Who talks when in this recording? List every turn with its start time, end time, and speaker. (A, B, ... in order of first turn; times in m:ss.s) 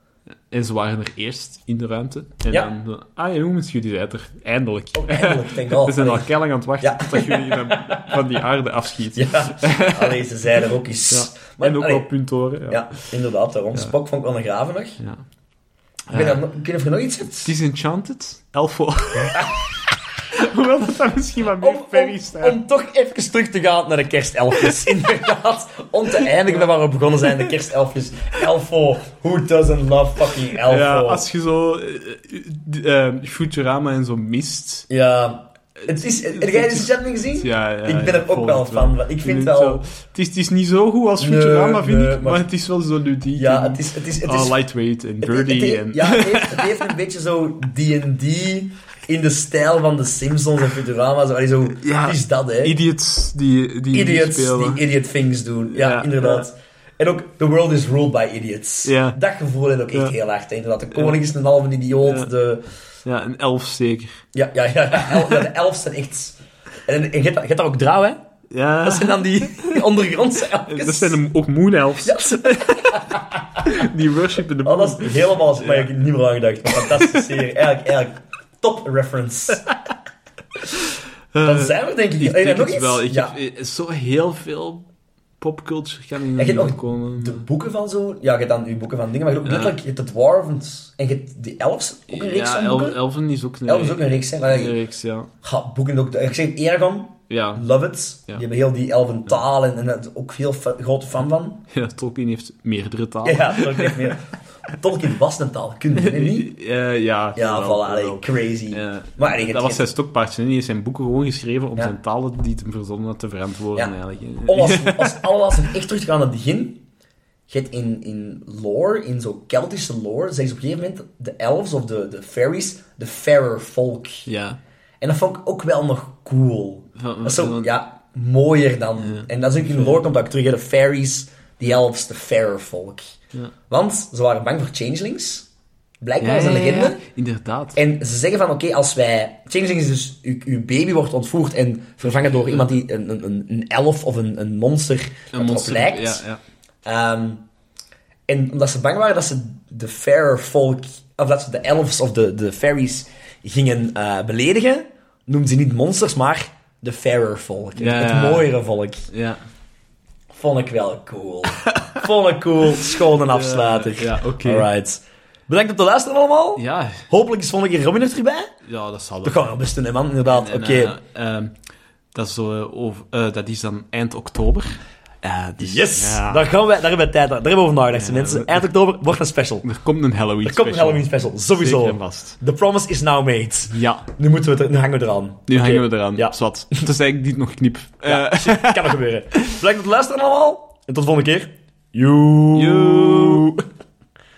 0:00.5-0:10.3 A
0:05.0-0:06.3 B
0:06.8-0:08.2 B
0:09.1-0:12.1 B
0:11.1-0:12.9 A
0:12.7-0:15.0 B
0:16.1-0:16.4 A
0:16.1-0:17.5 B
0:17.4-0:19.8 A
0:19.3-0:19.6 B
0:20.3-0:22.6 A
0:21.6-0:31.3 B
0:26.1-0:26.7 A
0:30.5-0:34.9 A
0:34.9-0:39.8 B
0:35.8-0:46.9 A
0:41.2-0:42.4 B
0:43.4-0:44.6 B
0:45.2-0:52.8 B
0:51.8-0:54.8 A
0:53.9-1:02.6 B
0:55.7-0:56.5 A
0:58.8-0:59.2 A
1:00.9-1:01.2 A
1:02.0-1:02.3 A
1:03.0-1:04.2 A
1:04.3-1:08.2 B
1:05.0-1:05.4 A
1:08.5-1:09.8 A
1:08.8-1:11.2 B
1:10.7-1:15.9 A
1:12.0-1:13.7 B
1:14.6-1:19.6 B
1:16.7-1:17.3 A
1:21.3-1:24.9 A
1:21.4-1:23.3 B
1:25.4-1:27.5 A
1:26.4-1:33.0 B
1:29.4-1:29.7 A
1:32.1-1:35.3 A
1:33.6-1:34.8 B
1:35.4-1:41.6 B
1:37.3-1:37.6 A
1:41.7-1:44.2 A
1:43.2-1:46.5 B
1:45.9-1:55.3 A
1:47.3-1:49.9 B
1:54.4-1:56.8 B
1:57.5-2:04.3 B
2:04.3-2:04.6 A
2:05.0-2:13.1 B
2:07.0-2:07.7 A
2:09.0-2:10.0 A
2:13.7-2:15.5 B
2:16.0-2:17.0 B
2:16.2-2:17.8 A
2:17.7-2:26.2 B
2:22.0-2:22.7 A
2:25.3-2:26.4 A
2:26.8-2:27.4 B
2:28.3-2:39.1 B
2:37.8-2:38.5 A
2:39.1-2:39.4 A
2:40.3-2:48.5 B
2:41.6-2:41.9 A
2:42.8-2:44.7 A
2:46.6-2:47.0 A
2:48.6-2:49.5 A
2:49.2-2:51.0 B
2:50.3-2:51.5 A
2:52.1-2:56.5 A
2:55.6-2:59.6 B
2:57.9-2:58.7 A
2:59.6-3:02.4 A
3:00.4-3:06.9 B
3:03.7-3:04.0 A
3:05.5-3:09.6 A
3:08.0-3:13.6 B
3:12.5-3:13.5 A